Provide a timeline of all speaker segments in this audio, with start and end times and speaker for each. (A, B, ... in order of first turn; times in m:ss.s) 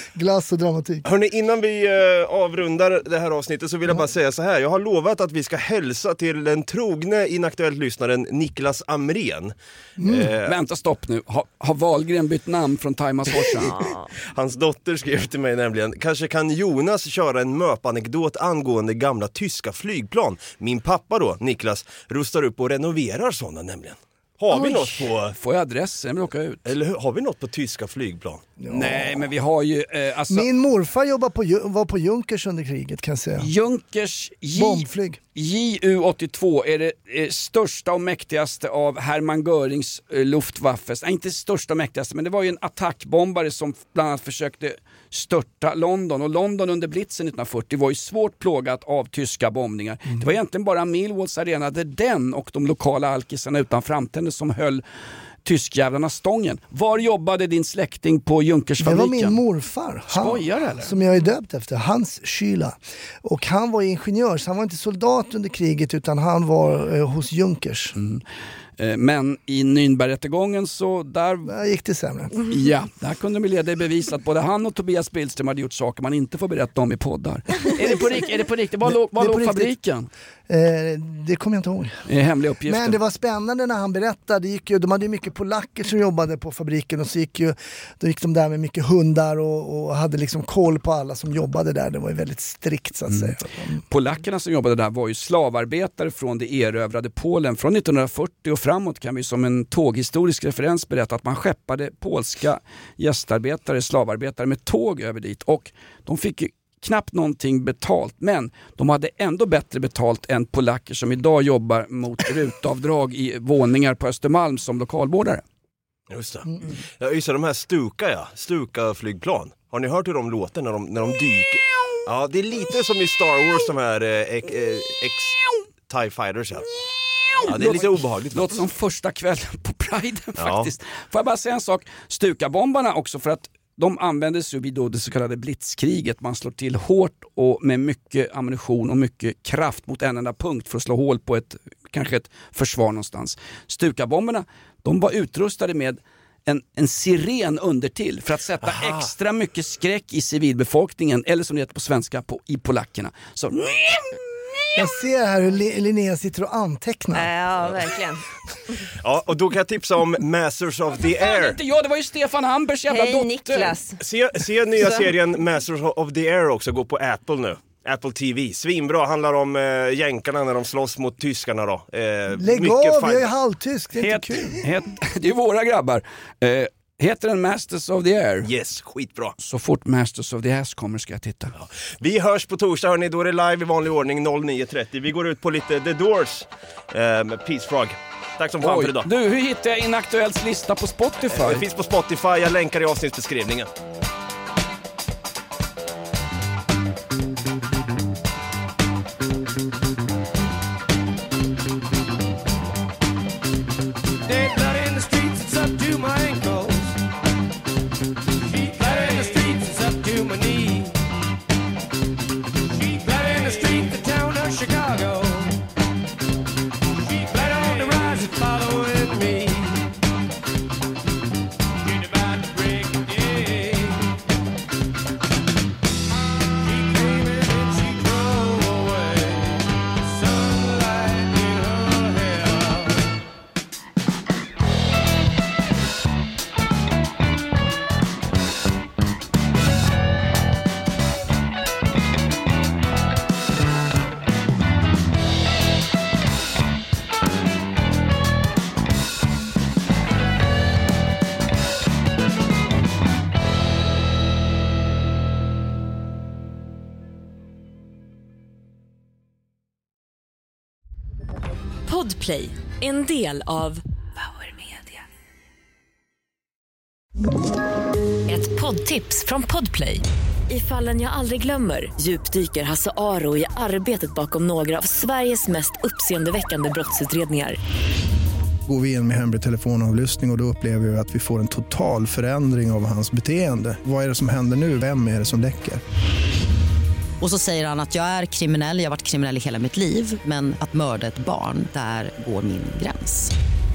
0:00.1-0:01.1 A
0:01.0-0:10.5 B
0:10.0-0:10.3 A
0:10.4-0:13.8 C
0:13.6-0:14.1 D
0:14.3-0:25.4 B
0:25.3-0:26.6 C
0:26.7-0:28.4 B
0:28.6-0:29.3 A
0:28.7-0:30.5 C
0:30.3-0:33.5 A
0:33.4-0:54.8 C
0:34.6-0:35.2 A
0:55.4-0:59.4 C
0:58.8-1:08.0 A
1:00.1-1:00.9 C
1:08.0-1:08.2 C
1:08.8-1:11.6 C
1:11.5-1:12.4 A
1:12.4-1:20.1 C
1:18.8-1:19.7 A
1:20.5-1:22.0 A
1:22.1-1:23.0 C
1:22.6-1:33.8 A
1:33.9-1:55.4 C
1:56.1-2:06.7 B
2:07.4-2:34.6 C
2:07.4-2:08.6 B
2:10.4-2:10.7 B
2:28.6-2:29.1 B
2:34.8-2:37.3 A
2:37.1-2:38.2 D
2:39.0-2:41.6 B
2:41.0-2:43.8 C
2:42.9-2:44.0 D
2:44.0-2:53.3 B
2:52.3-2:54.7 A
2:54.0-2:58.5 C
2:58.4-2:59.4 B
2:59.4-3:01.5 C
3:01.6-3:09.1 B
3:08.6-3:11.6 C
3:11.3-3:13.7 B
3:24.3-3:27.0 E
3:28.5-3:31.0 E
3:32.8-3:35.6 E
3:37.1-3:39.9 E
3:41.9-3:44.2 E
3:46.6-3:53.0 E
4:21.9-4:25.0 F
4:28.3-4:37.6 F
4:38.7-4:45.8 G
4:47.2-4:53.3 H